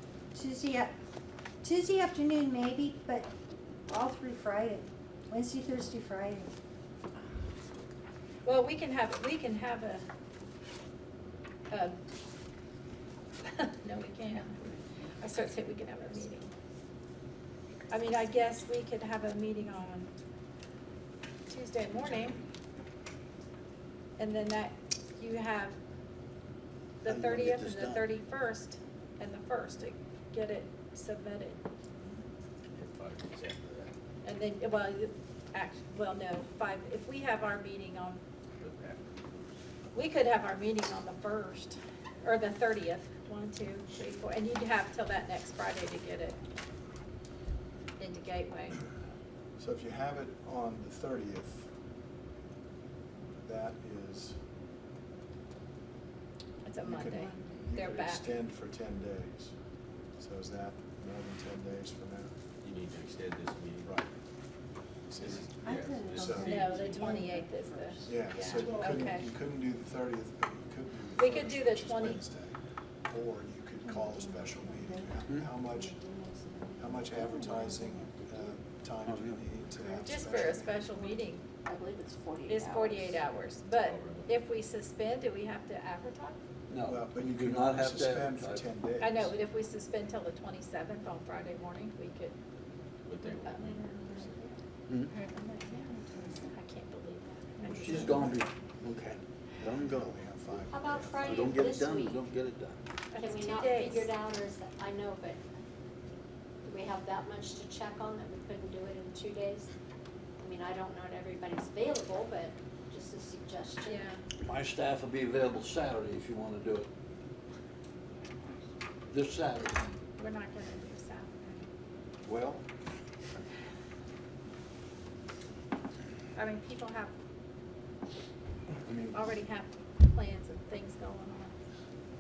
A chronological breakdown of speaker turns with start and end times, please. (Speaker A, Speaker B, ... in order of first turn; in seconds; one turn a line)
Speaker A: 0.3-0.9
Speaker A: 1.6-3.3
Speaker A: 3.9-6.5
Speaker B: 8.4-10.1
Speaker B: 11.7-12.0
Speaker B: 13.5-16.5
Speaker B: 17.9-20.1
Speaker B: 21.5-22.4
Speaker B: 24.2-25.8
Speaker B: 27.0-31.6
Speaker C: 27.0-28.1
Speaker D: 32.7-33.9
Speaker B: 34.2-38.2
Speaker D: 38.6-39.5
Speaker B: 39.9-46.4
Speaker B: 48.0-48.8
Speaker E: 49.6-51.7
Speaker E: 53.4-54.4
Speaker B: 56.6-58.3
Speaker E: 56.8-59.5
Speaker A: 57.1-57.5
Speaker E: 60.2-62.3
Speaker D: 62.6-63.9
Speaker E: 63.8-64.1
Speaker E: 65.1-65.5
Speaker D: 65.2-67.2
Speaker A: 65.6-69.1
Speaker E: 66.1-67.0
Speaker B: 66.4-69.3
Speaker E: 68.1-72.6
Speaker B: 71.2-72.2
Speaker E: 73.1-76.0
Speaker A: 73.8-78.6
Speaker E: 76.8-80.9
Speaker C: 79.0-79.4
Speaker A: 79.7-80.1
Speaker B: 80.0-81.5
Speaker F: 81.0-83.2
Speaker B: 82.5-86.4
Speaker D: 83.8-84.4
Speaker C: 86.7-88.7
Speaker E: 86.8-89.3
Speaker B: 89.0-92.3
Speaker D: 93.0-94.4
Speaker B: 93.5-93.8
Speaker A: 93.6-94.5
Speaker C: 94.9-95.1
Speaker A: 95.1-96.5
Speaker B: 96.5-98.3
Speaker C: 97.7-102.8
Speaker E: 97.8-98.5
Speaker E: 99.6-101.6
Speaker F: 100.7-102.3
Speaker B: 103.1-104.1
Speaker F: 103.1-105.4
Speaker F: 106.7-109.7
Speaker F: 110.4-114.1
Speaker B: 113.8-114.2
Speaker C: 114.4-116.9
Speaker C: 119.1-119.9
Speaker B: 120.2-121.7
Speaker C: 122.2-122.7
Speaker B: 126.4-127.1
Speaker C: 128.9-129.3
Speaker B: 129.1-131.6